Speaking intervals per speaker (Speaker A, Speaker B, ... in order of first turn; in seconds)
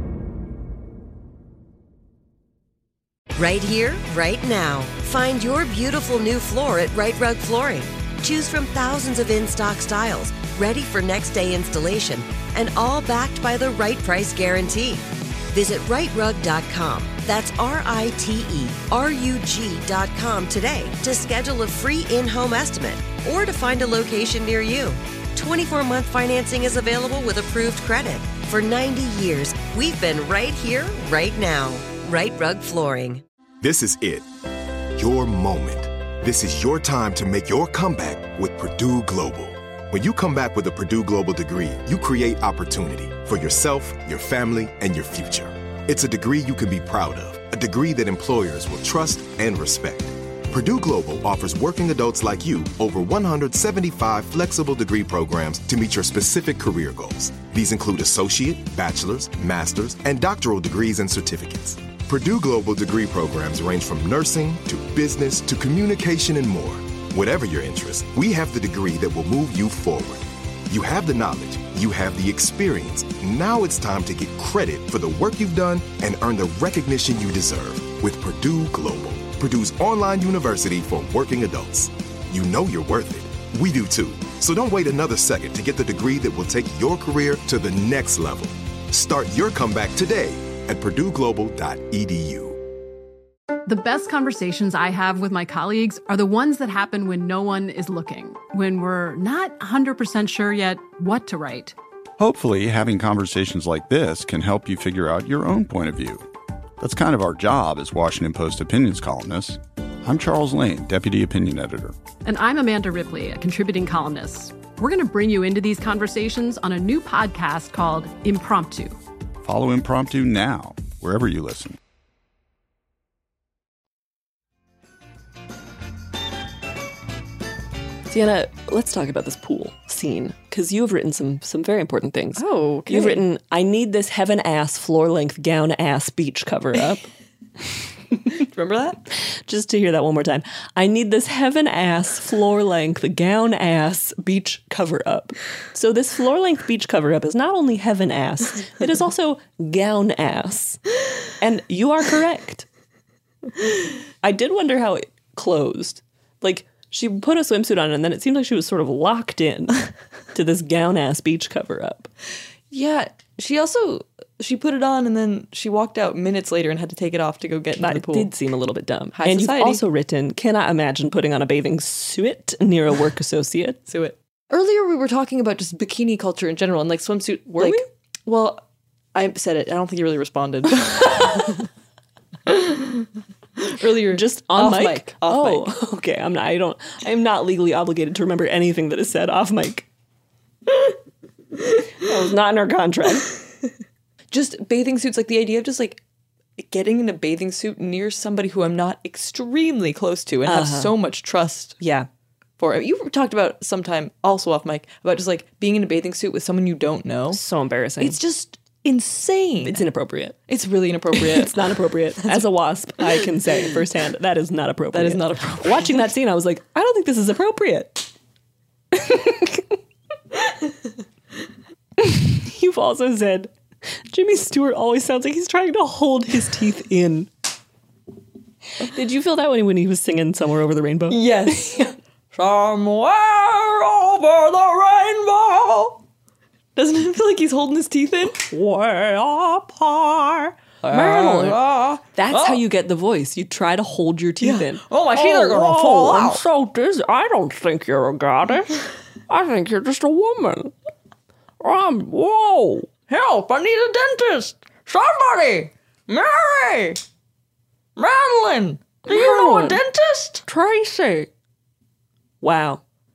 Speaker A: 3.3-33.2
Speaker B: 33.6-34.3, 34.9-92.6
Speaker C: 93.7-101.7, 112.2-119.0
Speaker D: 102.2-106.2, 106.8-111.9, 119.4-121.8
Speaker E: 128.1-137.1, 139.4-150.8, 151.4-152.7, 154.2-162.1, 167.8-173.8, 177.6-177.8, 184.1-189.9, 192.0-193.3, 200.4-200.9, 201.8-202.1, 207.3-208.2, 209.6-210.4, 211.1-218.1, 218.9-219.7, 222.0-223.5, 224.1-227.3, 228.8-231.8, 238.4-241.6, 242.1-250.7, 251.6-252.9, 259.1-259.8, 260.5-261.3, 262.4-262.8
Speaker F: 132.4-133.2, 138.4-139.0, 162.7-168.3, 169.1-169.8, 173.9-181.7, 182.5-183.0, 183.6-185.7, 194.3-196.0, 196.6-201.8, 202.6-207.4, 208.0-209.8, 210.5-212.5, 214.9-216.1, 231.1-236.0, 236.8-238.4, 240.8-242.6, 244.4-246.4, 253.1-257.0, 258.0-260.4